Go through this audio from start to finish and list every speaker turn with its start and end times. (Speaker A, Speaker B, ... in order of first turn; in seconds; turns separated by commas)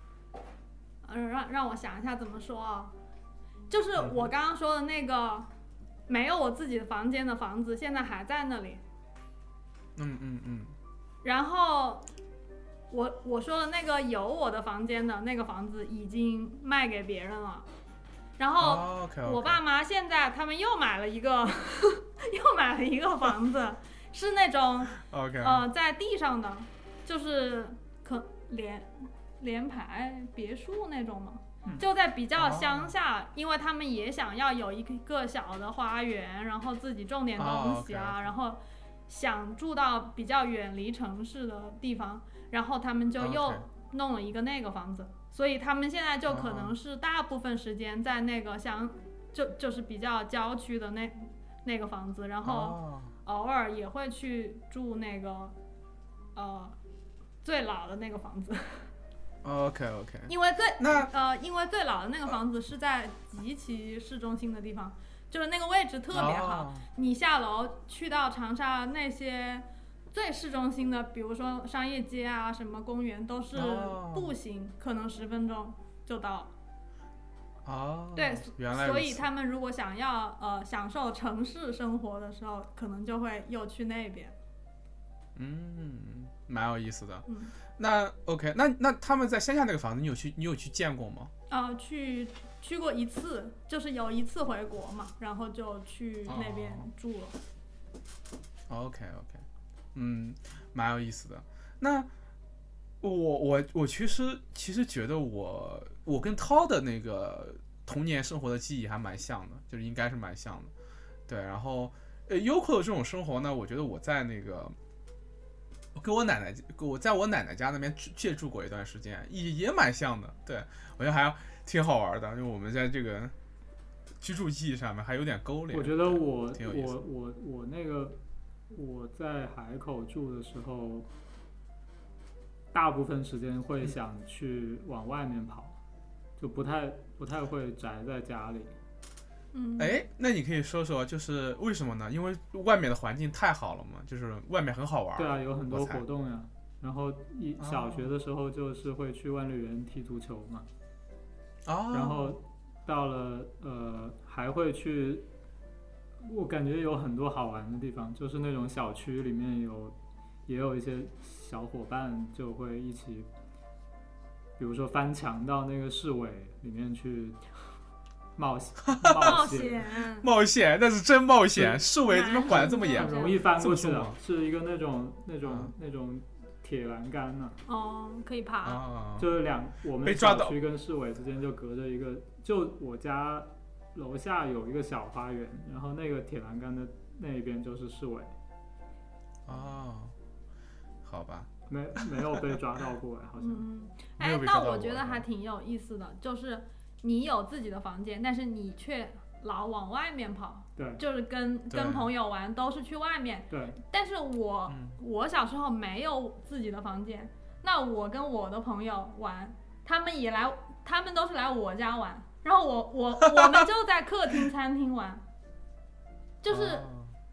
Speaker A: 1.0-2.9, Speaker A: 3.7-5.5, Speaker B: 4.0-4.3, Speaker A: 6.1-8.8, Speaker B: 9.9-10.7, Speaker A: 11.2-12.1, Speaker A: 12.9-17.6, Speaker A: 18.4-55.5, Speaker B: 18.6-19.6, Speaker B: 24.9-25.6, Speaker B: 32.4-32.9, Speaker B: 37.4-38.3, Speaker B: 43.2-43.6, Speaker B: 46.3-46.8, Speaker B: 52.4-53.1, Speaker A: 56.3-56.7, Speaker A: 57.4-58.9, Speaker B: 59.4-61.1, Speaker A: 60.3-76.5, Speaker B: 66.1-66.8, Speaker B: 73.5-74.3, Speaker B: 77.6-79.2, Speaker A: 78.2-84.3, Speaker B: 85.3-87.2, Speaker A: 87.3-87.5, Speaker B: 87.8-91.3, Speaker A: 91.5-97.3, Speaker B: 96.3-96.9, Speaker B: 98.7-99.4, Speaker B: 99.9-102.1, Speaker B: 103.0-110.7, Speaker B: 111.3-114.7, Speaker B: 115.9-123.3, Speaker B: 124.2-127.0, Speaker C: 125.7-128.2, Speaker C: 128.7-131.1, Speaker C: 132.7-135.8, Speaker C: 136.4-138.8, Speaker A: 139.5-140.0, Speaker B: 139.8-146.0, Speaker C: 145.2-150.7, Speaker B: 147.6-148.1, Speaker B: 151.7-152.3, Speaker C: 151.9-155.3, Speaker C: 156.2-159.9, Speaker C: 160.5-163.3, Speaker C: 164.6-167.4, Speaker C: 168.4-169.8, Speaker B: 168.9-169.5, Speaker A: 169.2-170.3, Speaker B: 170.2-174.2, Speaker C: 171.6-171.8, Speaker A: 172.1-173.4, Speaker C: 172.5-177.6, Speaker B: 175.4-175.7, Speaker A: 177.7-178.8, Speaker B: 178.6-179.3, Speaker C: 179.2-188.3, Speaker B: 180.0-180.6, Speaker B: 189.4-190.1, Speaker B: 191.0-192.2, Speaker C: 191.7-193.7, Speaker A: 193.4-215.2, Speaker B: 194.2-195.2, Speaker B: 201.7-202.1, Speaker C: 203.5-203.8, Speaker B: 204.7-205.0, Speaker B: 213.2-213.7, Speaker A: 216.4-216.8, Speaker B: 216.5-217.1